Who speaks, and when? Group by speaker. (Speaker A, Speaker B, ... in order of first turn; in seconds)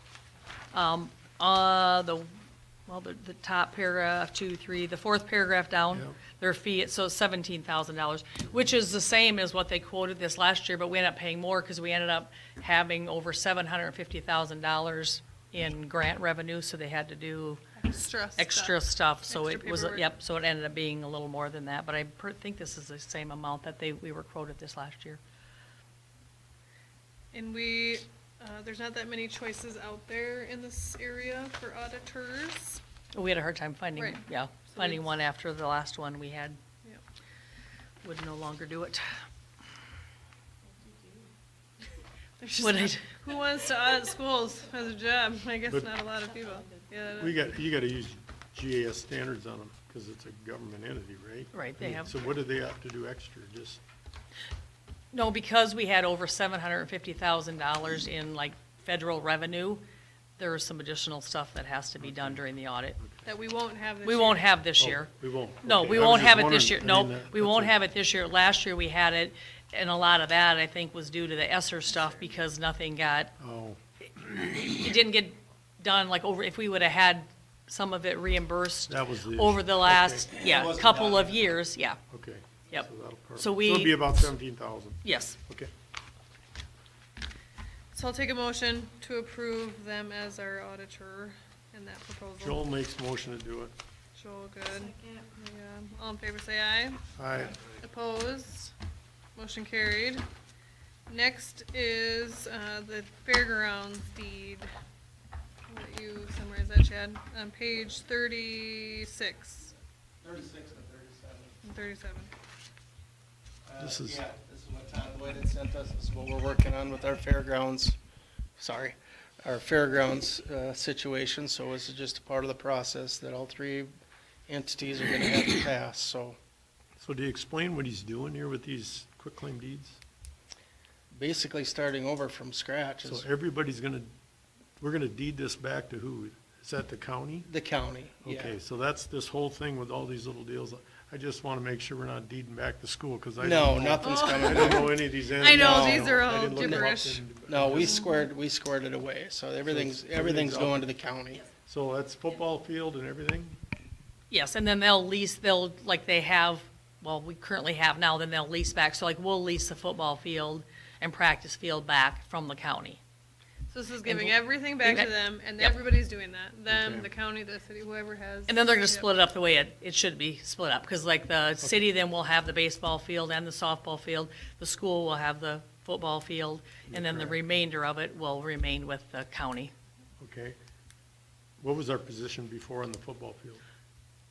Speaker A: 0.7-2.3, 2.9-17.6, 18.4-25.2, 33.1-36.6, 38.0-39.1, 42.6-43.1, 51.5-52.1, 55.1-59.8, 60.4-63.0, 64.0-65.1, 65.6-73.3, 74.6-82.0, 82.7-84.3, 85.0-85.4, 154.3-163.0, 164.0-165.8, 168.5-179.7
Speaker B: 5.9-6.2, 47.2-53.8, 62.0-62.5, 63.0-63.2, 64.8-67.8, 73.4-73.8, 78.9-80.3, 82.1-85.7, 92.4-93.7, 97.2-97.6, 113.8-114.2, 127.0-130.0, 133.1-134.1, 134.8-137.5, 138.2-148.0, 149.7-150.9, 151.7-153.6, 166.7-167.1, 176.9-177.4, 180.2-180.6, 181.6-183.6
Speaker C: 17.8-20.1, 27.3-32.8, 34.7-35.1, 42.4-47.4, 63.2-64.5, 87.9-92.7, 94.2-97.0, 97.7-98.7, 99.4-100.2, 101.1-104.7, 105.7-109.7, 111.6-112.3, 144.0-147.2, 147.8-148.2, 163.7-169.1
Speaker D: 80.3-81.4, 110.2-111.6, 113.7-118.0, 118.6-123.9, 124.5-126.4, 131.1-133.2, 137.4-138.5, 143.4-146.9, 147.5-151.4